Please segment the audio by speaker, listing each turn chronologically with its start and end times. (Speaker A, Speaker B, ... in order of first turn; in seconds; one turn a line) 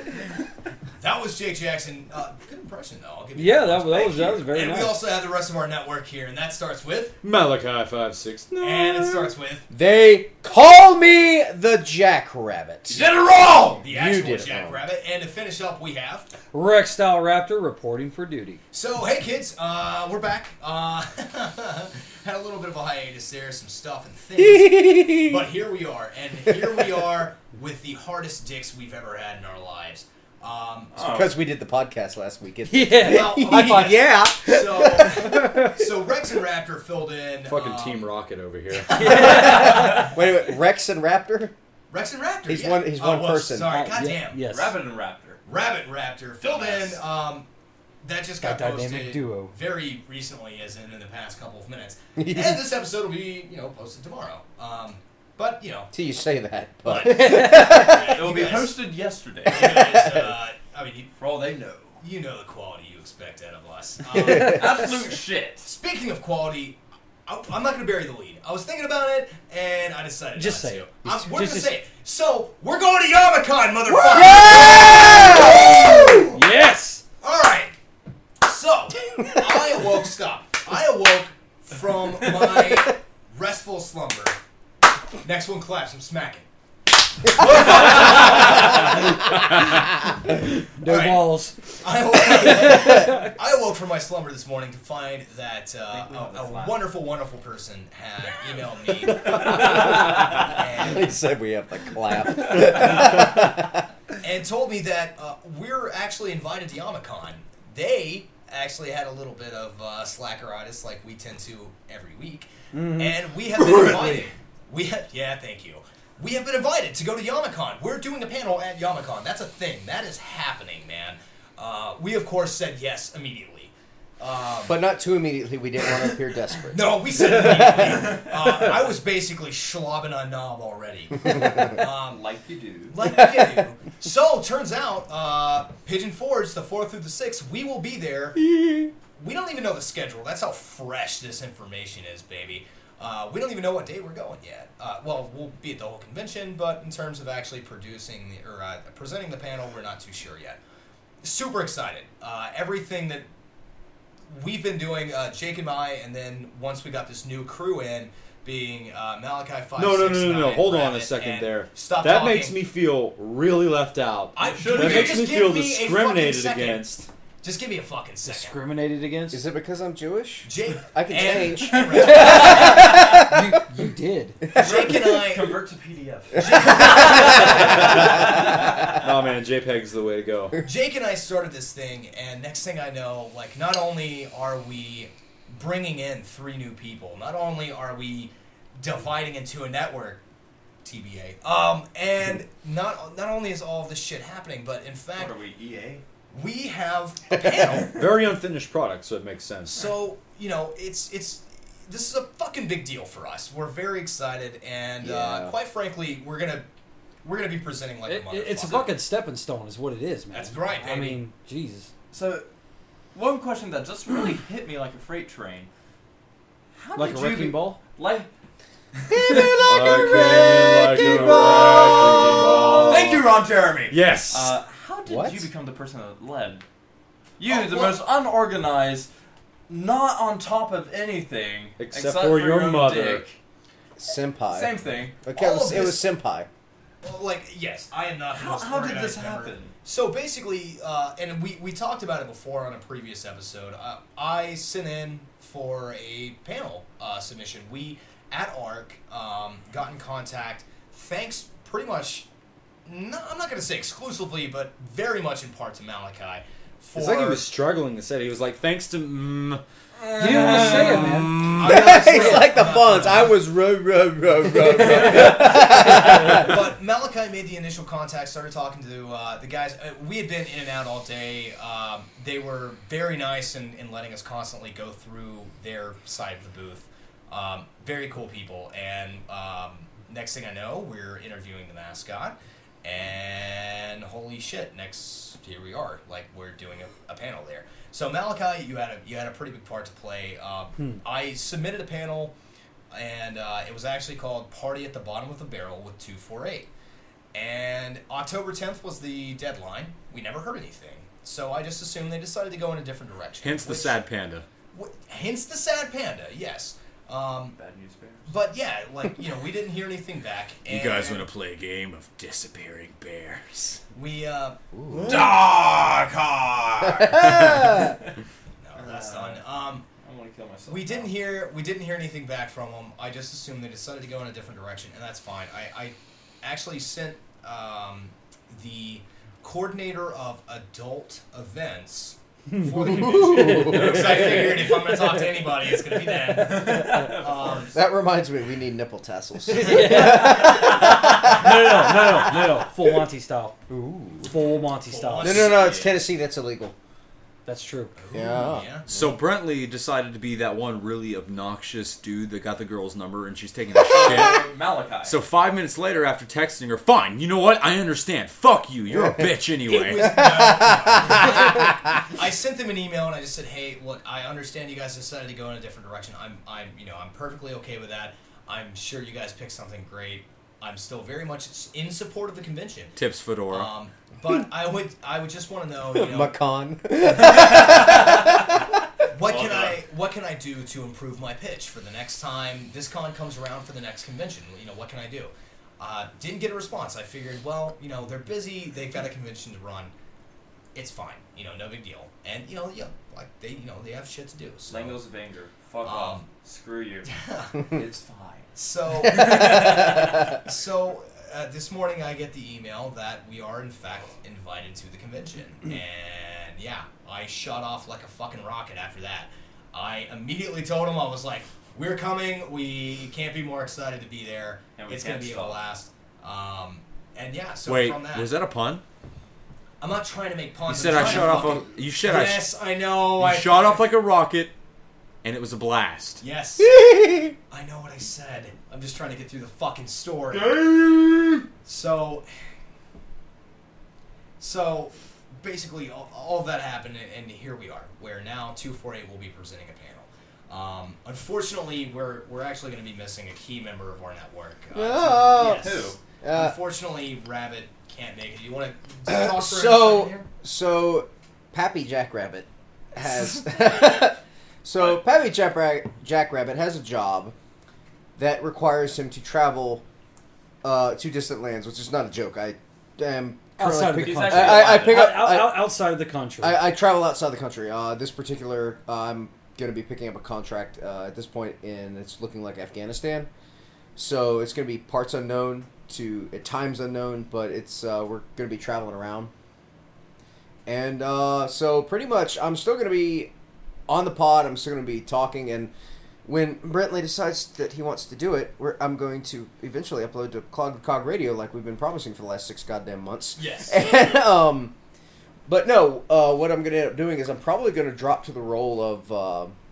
Speaker A: 1.0-7.2
Speaker B: 3.4-5.0
Speaker C: 7.2-9.3
Speaker A: 8.6-9.7
Speaker D: 9.7-13.1
Speaker E: 12.9-13.8
Speaker A: 13.7-16.3
Speaker D: 13.8-14.8
Speaker B: 16.5-18.6
Speaker A: 18.7-30.9
Speaker D: 24.4-25.4
Speaker D: 26.5-26.9
Speaker E: 30.9-31.3
Speaker D: 31.0-35.9
Speaker B: 32.6-34.0
Speaker A: 33.0-38.1
Speaker C: 37.4-39.1
Speaker A: 38.7-40.1
Speaker B: 38.9-40.1
Speaker D: 39.0-41.5
Speaker A: 41.9-44.4
Speaker D: 42.5-43.8
Speaker B: 43.6-44.8
Speaker E: 44.4-45.4
Speaker A: 45.5-47.5
Speaker E: 46.4-47.0
Speaker A: 48.0-55.9
Speaker B: 48.4-49.5
Speaker D: 52.2-52.6
Speaker D: 55.9-58.5
Speaker A: 56.8-58.7
Speaker B: 57.0-57.9
Speaker E: 57.9-59.8
Speaker A: 59.5-61.1
Speaker D: 59.5-60.3
Speaker E: 61.2-62.0
Speaker A: 62.0-64.7
Speaker D: 64.1-64.8
Speaker E: 64.3-65.7
Speaker A: 65.6-76.4
Speaker B: 70.3-71.7
Speaker D: 74.1-76.2
Speaker B: 74.4-75.7
Speaker B: 76.2-77.0
Speaker A: 77.2-77.7
Speaker A: 78.4-84.4
Speaker D: 79.2-79.5
Speaker A: 85.2-86.5
Speaker A: 87.3-88.9
Speaker E: 87.4-88.8
Speaker B: 89.2-89.9
Speaker B: 90.6-91.6
Speaker A: 90.8-101.1
Speaker B: 92.4-93.3
Speaker E: 95.9-96.9
Speaker D: 99.1-103.9
Speaker A: 104.2-124.8
Speaker B: 112.7-114.2
Speaker D: 124.7-128.0
Speaker A: 126.7-132.2
Speaker E: 131.9-132.9
Speaker A: 132.9-138.5
Speaker D: 133.1-133.6
Speaker D: 138.4-138.8
Speaker A: 139.2-150.6
Speaker A: 151.2-153.3
Speaker A: 154.3-162.6
Speaker C: 159.8-167.1
Speaker A: 164.3-168.6
Speaker E: 164.4-165.2
Speaker B: 168.2-169.4
Speaker D: 169.3-173.4
Speaker A: 170.4-172.8
Speaker B: 171.9-174.5
Speaker E: 174.5-179.1
Speaker A: 174.6-175.6
Speaker D: 174.6-174.9
Speaker A: 176.4-177.7
Speaker C: 177.6-178.3
Speaker C: 178.8-180.6
Speaker A: 180.6-190.2
Speaker A: 190.8-195.3
Speaker E: 195.2-196.0
Speaker A: 196.3-198.0
Speaker C: 197.8-199.9
Speaker A: 199.7-206.7
Speaker D: 205.0-205.5
Speaker A: 207.2-208.9
Speaker B: 208.1-211.9
Speaker A: 210.3-211.2
Speaker E: 212.1-212.4
Speaker E: 213.1-215.7
Speaker E: 216.8-218.3
Speaker B: 216.9-217.8
Speaker E: 219.0-219.6
Speaker D: 219.1-223.0
Speaker C: 219.3-223.3
Speaker E: 221.0-226.6
Speaker C: 223.9-224.5
Speaker D: 225.1-225.5
Speaker E: 227.4-229.1
Speaker A: 227.4-228.0
Speaker E: 229.7-233.4
Speaker C: 231.8-233.2
Speaker D: 234.0-236.5
Speaker E: 234.5-235.1
Speaker A: 235.3-236.1
Speaker A: 237.0-252.2
Speaker E: 238.3-239.7
Speaker A: 252.8-257.5
Speaker C: 256.9-262.0
Speaker B: 260.2-261.5
Speaker E: 260.7-261.0
Speaker D: 261.4-266.6
Speaker A: 261.5-263.3
Speaker A: 265.1-292.3
Speaker A: 292.9-296.7
Speaker A: 297.3-304.0
Speaker C: 303.4-304.4
Speaker A: 304.7-307.6
Speaker E: 307.6-308.3
Speaker A: 308.2-311.3
Speaker C: 310.7-313.8
Speaker A: 313.9-314.6
Speaker D: 314.7-315.3
Speaker E: 315.0-318.0
Speaker D: 316.8-317.9
Speaker A: 318.6-319.8
Speaker E: 318.8-319.4
Speaker E: 320.0-321.2
Speaker A: 320.7-337.7
Speaker B: 332.5-334.4
Speaker D: 332.8-334.7
Speaker B: 336.1-337.1
Speaker E: 336.3-337.8
Speaker D: 337.7-342.1
Speaker B: 339.5-343.6
Speaker E: 339.7-341.1
Speaker D: 343.7-344.4
Speaker B: 344.2-345.5
Speaker A: 344.8-345.8
Speaker D: 345.2-346.7
Speaker E: 345.2-346.0
Speaker B: 347.4-347.9
Speaker A: 348.0-348.8
Speaker D: 348.1-349.1
Speaker C: 348.9-354.5
Speaker E: 353.8-355.2
Speaker C: 355.0-360.2
Speaker D: 358.9-359.2
Speaker A: 359.7-373.0
Speaker D: 360.0-361.7
Speaker C: 372.9-373.7
Speaker A: 373.5-376.4
Speaker D: 375.9-378.6
Speaker A: 379.1-389.9
Speaker E: 379.2-379.8
Speaker A: 390.7-395.0
Speaker E: 394.7-400.0
Speaker A: 395.8-396.2
Speaker A: 397.1-397.6
Speaker A: 398.5-418.3
Speaker E: 414.8-415.6
Speaker C: 417.6-418.8
Speaker A: 419.8-423.8
Speaker C: 420.7-422.5
Speaker E: 420.9-421.4
Speaker C: 423.2-424.5
Speaker C: 425.2-426.2
Speaker A: 426.2-426.9
Speaker D: 426.6-427.3
Speaker A: 427.5-430.7
Speaker A: 431.6-432.2
Speaker A: 434.4-450.3
Speaker D: 444.7-446.5
Speaker E: 445.3-446.0
Speaker D: 449.1-457.3
Speaker D: 458.2-459.8
Speaker D: 460.6-465.7
Speaker B: 463.6-466.6
Speaker E: 464.0-465.2
Speaker D: 466.4-473.3
Speaker D: 473.9-479.3
Speaker D: 480.6-483.3
Speaker D: 483.9-485.7
Speaker D: 486.2-494.7
Speaker A: 493.4-493.9
Speaker D: 495.5-499.5